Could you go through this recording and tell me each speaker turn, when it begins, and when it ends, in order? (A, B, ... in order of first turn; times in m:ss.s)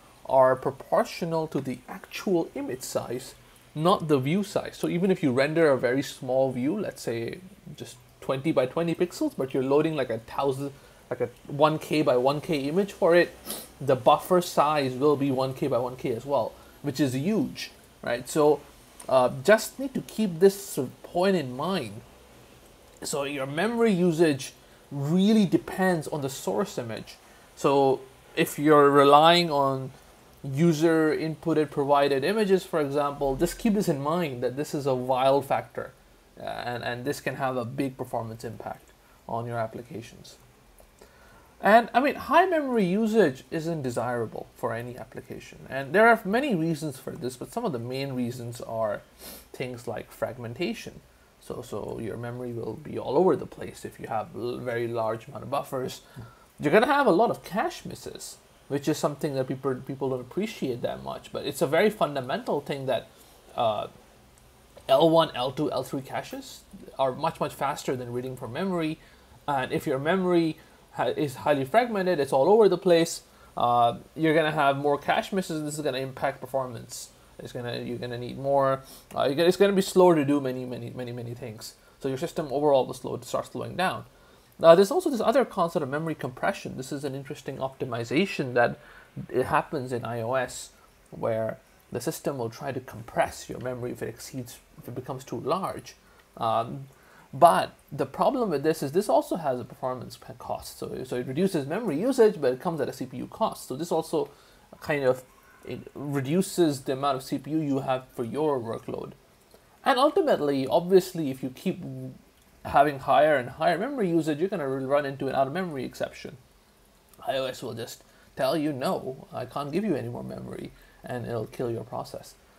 0:00.2-0:22.0 A
0:23.0-0:40.4 A
0:41.6-0:56.0 A
0:56.6-1:03.9 A
1:04.9-1:24.1 A
1:24.6-1:49.2 A
1:49.8-1:56.4 A
1:57.2-2:02.4 A